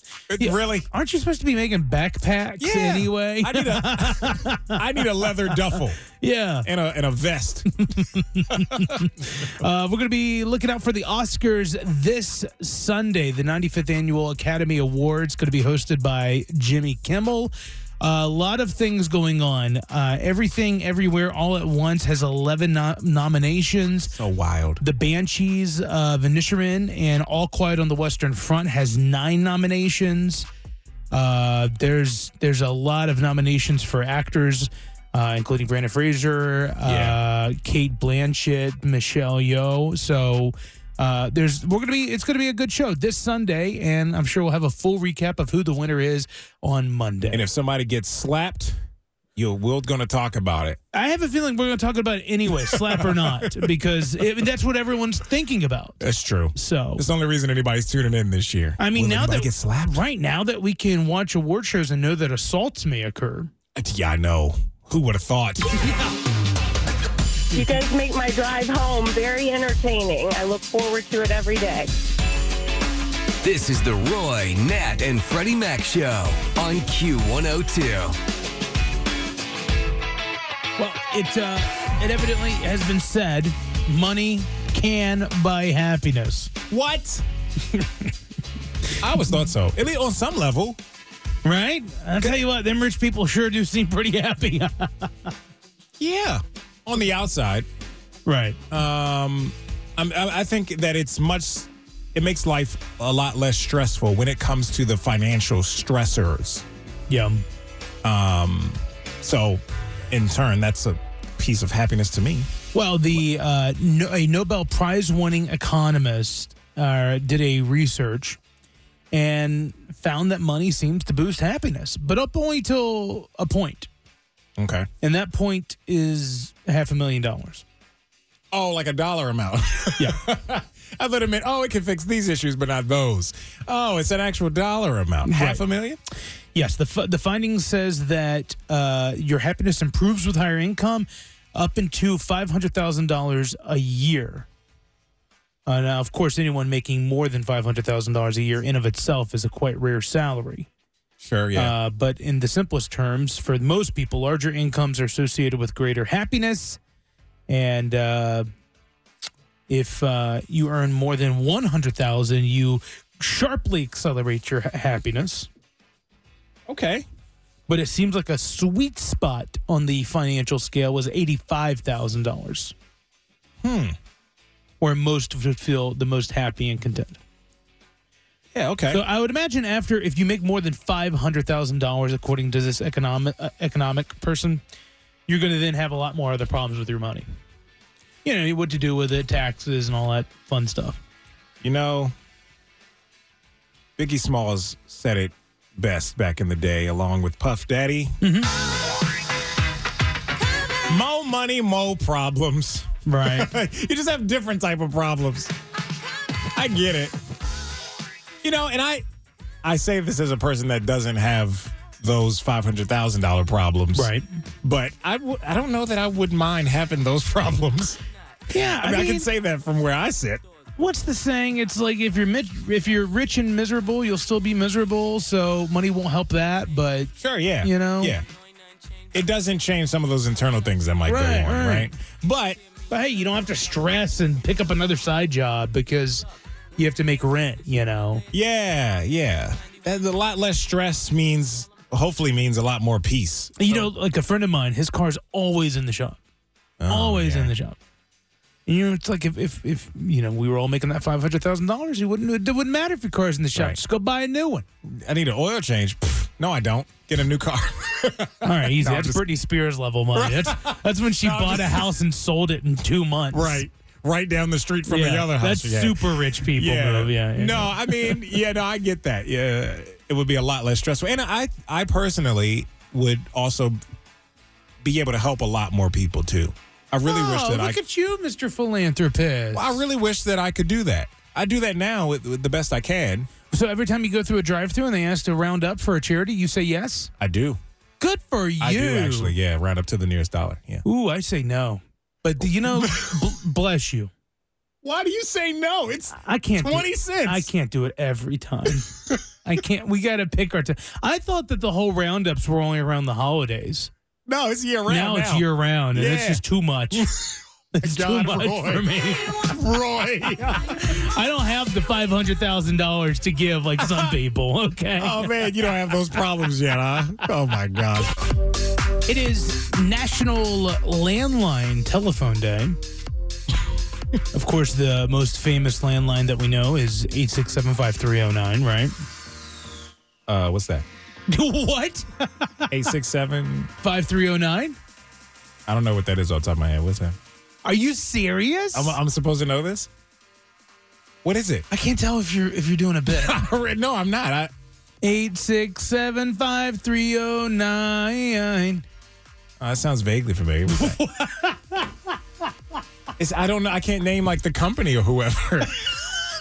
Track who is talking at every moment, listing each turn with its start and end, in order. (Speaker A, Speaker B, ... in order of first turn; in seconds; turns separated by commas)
Speaker A: 0.3-0.9, Speaker B: 0.4-6.7, Speaker A: 2.6-6.0, Speaker A: 6.6-7.9, Speaker B: 7.9-24.1, Speaker A: 8.5-9.4, Speaker A: 24.1-24.8, Speaker B: 24.8-30.5, Speaker B: 31.1-47.4, Speaker A: 36.8-37.2, Speaker A: 47.3-48.8, Speaker A: 49.4-50.8, Speaker B: 50.9-56.0, Speaker A: 52.7-53.7, Speaker A: 56.0-60.0, Speaker B: 56.5-57.0, Speaker B: 58.8-63.5, Speaker A: 63.8-65.8, Speaker C: 67.5-71.9, Speaker D: 73.4-78.2, Speaker B: 80.8-86.5, Speaker A: 86.7-87.2, Speaker B: 87.7-88.1, Speaker A: 89.0-90.8, Speaker B: 91.5-95.3, Speaker A: 96.0-97.7, Speaker B: 98.3-98.6, Speaker A: 98.7-106.7, Speaker B: 107.1-107.4, Speaker A: 108.0-112.5, Speaker B: 112.7-118.4, Speaker B: 119.1-123.9, Speaker A: 124.6-124.9, Speaker B: 125.0-127.7, Speaker A: 128.5-136.0, Speaker B: 130.0-130.2, Speaker B: 135.2-135.6, Speaker B: 136.6-144.5, Speaker B: 145.7-150.7, Speaker A: 151.2-151.8, Speaker B: 151.6-156.8, Speaker B: 157.5-158.5, Speaker B: 159.7-165.5, Speaker A: 166.7-167.1, Speaker B: 167.7-172.8, Speaker A: 173.6-174.0, Speaker B: 174.8-177.2, Speaker A: 178.5-179.0, Speaker B: 178.9-184.6, Speaker B: 185.3-187.3, Speaker B: 188.2-191.0, Speaker A: 191.6-192.1, Speaker A: 194.0-198.2, Speaker B: 198.2-198.5, Speaker A: 200.9-205.5, Speaker B: 203.1-203.5, Speaker A: 206.5-207.2, Speaker A: 208.4-209.1, Speaker A: 209.6-214.1, Speaker B: 213.9-214.3, Speaker A: 214.6-218.0, Speaker B: 218.5-219.3, Speaker A: 218.8-220.4, Speaker B: 220.8-228.2, Speaker A: 227.2-228.2, Speaker A: 229.1-232.6, Speaker B: 231.1-231.9, Speaker B: 232.9-238.2, Speaker A: 238.3-243.9, Speaker B: 243.6-246.2, Speaker A: 246.8-247.5, Speaker B: 246.9-247.8, Speaker B: 248.7-254.7, Speaker A: 254.8-259.2, Speaker B: 258.4-263.6, Speaker A: 260.1-261.9, Speaker A: 263.3-273.8, Speaker B: 264.9-268.2, Speaker A: 274.8-277.8, Speaker B: 277.1-279.8, Speaker A: 279.5-283.3, Speaker B: 283.5-287.1, Speaker A: 287.2-287.6, Speaker B: 288.0-289.4, Speaker A: 288.6-290.8, Speaker B: 290.9-294.1, Speaker A: 292.6-293.2, Speaker A: 294.8-297.5, Speaker B: 296.2-298.9, Speaker A: 298.8-299.2, Speaker B: 299.4-303.9, Speaker A: 304.3-311.0, Speaker B: 304.9-307.1, Speaker B: 307.7-309.4, Speaker B: 310.7-315.3, Speaker A: 313.8-314.1, Speaker A: 315.0-318.2, Speaker B: 319.1-322.8, Speaker B: 324.3-328.9, Speaker A: 330.3-330.9, Speaker B: 331.3-332.7, Speaker A: 332.7-333.7, Speaker B: 333.8-334.8, Speaker A: 335.7-337.2, Speaker B: 337.6-339.0, Speaker A: 338.7-339.9, Speaker A: 341.2-341.7, Speaker B: 341.7-343.4, Speaker A: 343.1-344.5, Speaker B: 345.0-348.8, Speaker A: 349.6-351.0, Speaker B: 350.7-352.1, Speaker A: 353.2-356.0